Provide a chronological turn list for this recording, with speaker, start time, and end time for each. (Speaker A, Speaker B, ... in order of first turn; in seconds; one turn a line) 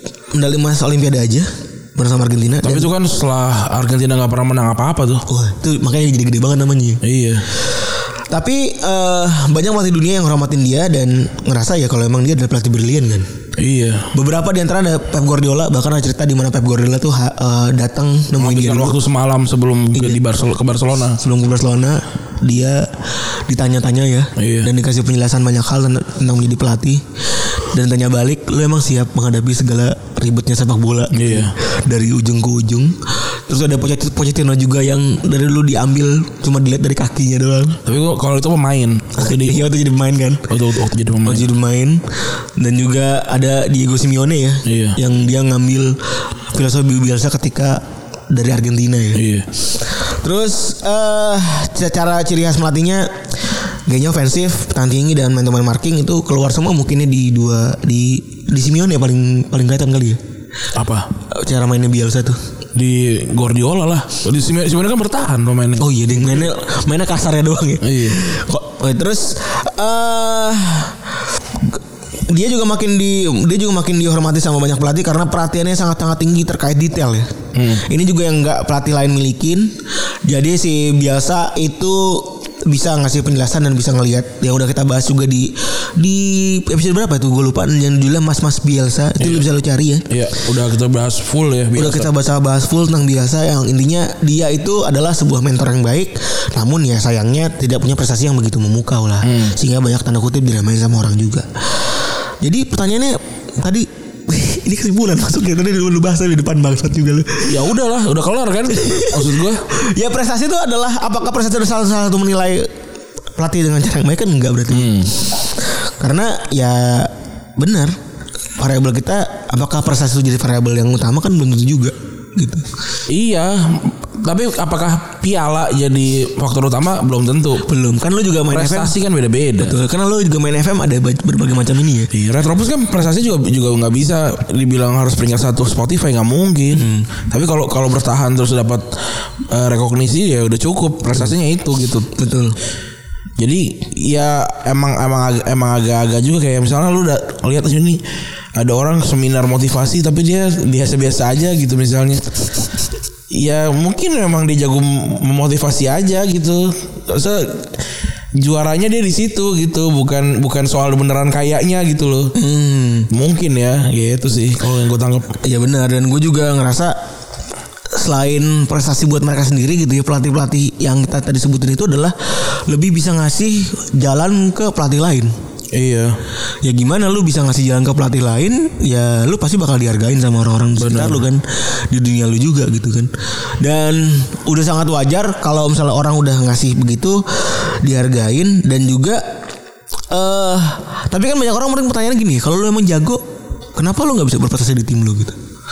Speaker A: 0.3-2.9
Speaker B: 2.6-5.2
Speaker A: 5.3-13.3
Speaker B: 7.0-7.5
Speaker B: 13.6-14.1
Speaker A: 14.1-19.0
Speaker B: 18.4-21.2
Speaker A: 19.9-20.2
Speaker A: 21.2-37.8
Speaker B: 24.4-24.7
Speaker B: 31.1-31.6
Speaker B: 37.9-39.6
Speaker A: 39.2-40.5
Speaker B: 40.5-41.5
Speaker A: 41.2-42.0
Speaker A: 42.6-60.2
Speaker B: 44.6-45.0
Speaker B: 49.1-49.5
Speaker B: 60.7-61.1
Speaker A: 61.2-62.4
Speaker B: 62.8-66.5
Speaker A: 65.8-90.1
Speaker B: 67.8-68.3
Speaker B: 77.5-77.9
Speaker B: 89.2-89.5
Speaker B: 90.1-92.1
Speaker A: 91.7-107.7
Speaker B: 99.2-99.5
Speaker B: 107.4-109.6
Speaker A: 108.7-112.7
Speaker A: 113.4-118.0
Speaker B: 114.7-115.2
Speaker A: 118.6-122.7
Speaker B: 123.1-127.7
Speaker A: 127.6-128.9
Speaker B: 128.5-129.8
Speaker A: 129.6-132.1
Speaker B: 132.1-138.9
Speaker A: 136.7-137.1
Speaker B: 139.5-142.1
Speaker A: 142.2-142.6
Speaker B: 143.4-148.0
Speaker B: 148.6-152.4
Speaker B: 153.3-157.7
Speaker B: 158.3-162.3
Speaker A: 162.3-163.1
Speaker B: 163.1-165.4
Speaker A: 165.4-167.0
Speaker A: 167.9-175.3
Speaker B: 175.7-176.2
Speaker A: 176.6-189.2
Speaker B: 180.8-181.2
Speaker A: 190.1-193.2
Speaker A: 193.8-195.4